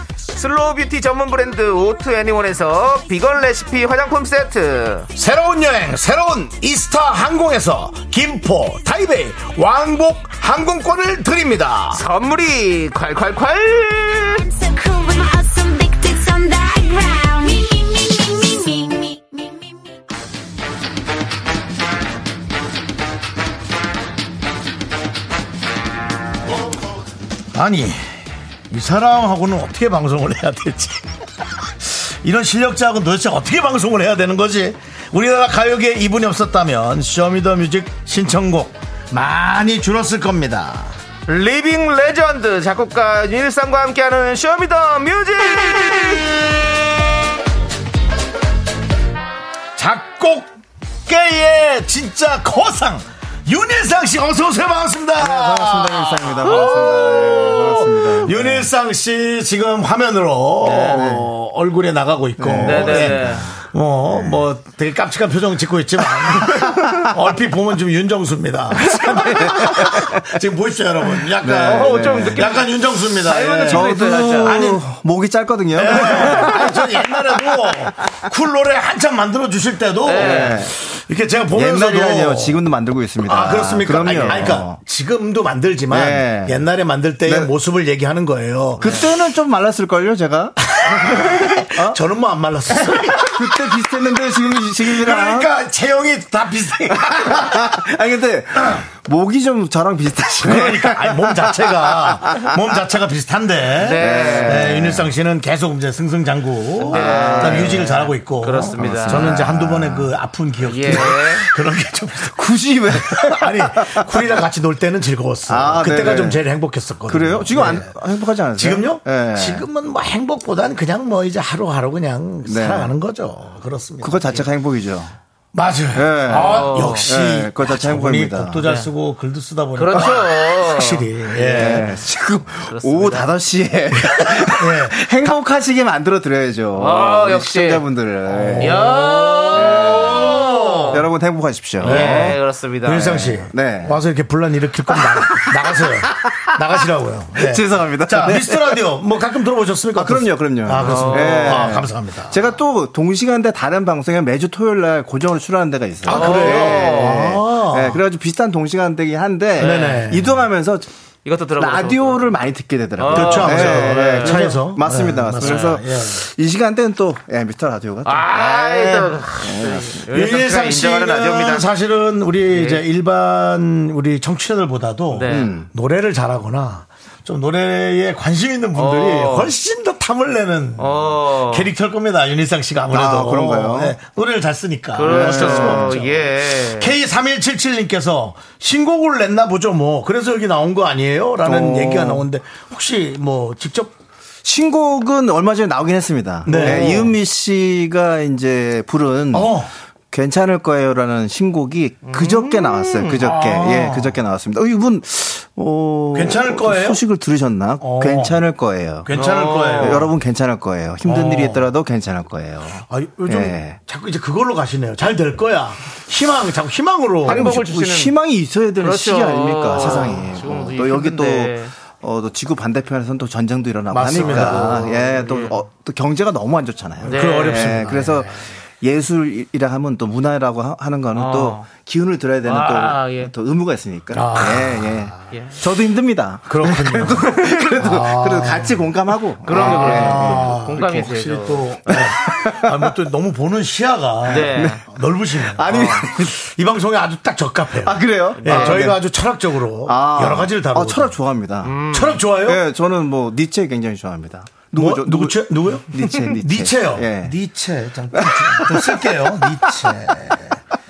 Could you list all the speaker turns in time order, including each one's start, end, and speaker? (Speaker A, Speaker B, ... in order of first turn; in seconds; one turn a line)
Speaker A: 0.3-5.1
Speaker B: 5.2-12.0
Speaker A: 11.9-14.4
Speaker C: 14.4-19.9
Speaker B: 27.5-28.0
Speaker B: 28.7-31.0
Speaker B: 31.8-40.9
Speaker A: 41.3-46.5
Speaker B: 49.8-50.5
Speaker B: 51.1-74.8
Speaker D: 55.2-58.7
Speaker A: 60.6-61.1
Speaker D: 60.8-61.3
Speaker D: 62.4-64.5
Speaker A: 62.6-63.5
Speaker D: 66.1-67.1
Speaker D: 68.9-70.3
Speaker D: 71.4-72.5
Speaker A: 71.7-72.7
Speaker A: 73.2-74.6
Speaker D: 73.6-77.9
Speaker B: 75.8-82.6
Speaker A: 76.2-76.6
Speaker A: 80.0-80.7
Speaker D: 80.1-80.8
Speaker D: 81.5-84.8
Speaker B: 83.2-89.0
Speaker A: 84.1-84.3
Speaker D: 85.9-86.7
Speaker D: 87.2-87.5
Speaker D: 88.8-92.0
Speaker B: 90.7-93.6
Speaker D: 92.8-95.5
Speaker B: 94.9-97.8
Speaker D: 96.9-102.7
Speaker B: 100.4-112.4
Speaker A: 103.8-104.8
Speaker D: 104.0-105.1
Speaker D: 106.8-108.2
Speaker A: 106.9-109.4
Speaker D: 108.7-110.2
Speaker A: 110.6-111.5
Speaker D: 110.9-111.1
Speaker D: 112.2-114.4
Speaker B: 113.0-117.9
Speaker D: 115.5-116.5
Speaker D: 117.1-119.7
Speaker B: 118.6-124.4
Speaker D: 122.5-122.9
Speaker D: 124.0-125.1
Speaker B: 125.5-131.9
Speaker D: 126.0-128.6
Speaker A: 126.3-127.1
Speaker A: 128.6-128.9
Speaker A: 129.8-131.6
Speaker D: 131.4-138.9
Speaker A: 132.7-133.3
Speaker B: 133.9-135.1
Speaker A: 136.8-137.8
Speaker B: 138.3-141.0
Speaker A: 138.6-141.1
Speaker D: 139.5-140.3
Speaker D: 140.9-142.4
Speaker B: 141.8-152.4
Speaker A: 141.8-143.2
Speaker D: 143.0-144.0
Speaker D: 144.9-146.1
Speaker D: 147.3-148.8
Speaker D: 149.9-160.9
Speaker A: 150.8-151.7
Speaker B: 156.1-158.0
Speaker A: 156.1-157.3
Speaker B: 159.6-160.4
Speaker A: 159.6-160.1
Speaker A: 161.2-162.2
Speaker D: 161.6-170.1
Speaker A: 163.0-164.6
Speaker B: 163.1-166.2
Speaker A: 165.4-165.8
Speaker A: 168.1-171.7
Speaker B: 170.1-193.9
Speaker A: 172.5-172.8
Speaker A: 175.1-175.5
Speaker D: 175.3-175.7
Speaker A: 178.8-179.5
Speaker A: 180.8-181.7
Speaker D: 182.9-184.0
Speaker A: 184.9-187.0
Speaker D: 185.0-186.1
Speaker D: 191.4-192.3
Speaker D: 194.4-209.1
Speaker B: 196.4-197.1
Speaker A: 196.5-197.0
Speaker B: 199.3-199.7
Speaker A: 202.1-203.2
Speaker B: 203.2-204.2
Speaker B: 206.1-207.0
Speaker B: 207.8-208.4
Speaker B: 209.0-210.1
Speaker A: 209.1-210.1
Speaker D: 209.8-213.8
Speaker B: 211.1-211.7
Speaker B: 212.8-217.6
Speaker D: 217.2-240.9
Speaker A: 217.3-218.1
Speaker A: 218.8-221.7
Speaker B: 223.9-224.9
Speaker A: 224.1-225.6
Speaker B: 227.0-228.3
Speaker A: 227.1-227.9
Speaker A: 231.1-231.7
Speaker A: 232.4-233.3
Speaker B: 234.1-235.2
Speaker A: 235.3-235.6
Speaker B: 236.5-238.8
Speaker A: 239.4-242.0
Speaker B: 239.5-251.1
Speaker D: 241.9-243.0
Speaker A: 244.3-244.8
Speaker D: 244.3-246.4
Speaker A: 245.7-246.0
Speaker D: 247.8-249.1
Speaker A: 248.4-248.9
Speaker D: 249.8-251.8
Speaker A: 251.6-252.2
Speaker B: 251.9-252.6
Speaker D: 252.3-257.4
Speaker B: 254.8-260.6
Speaker D: 258.1-259.9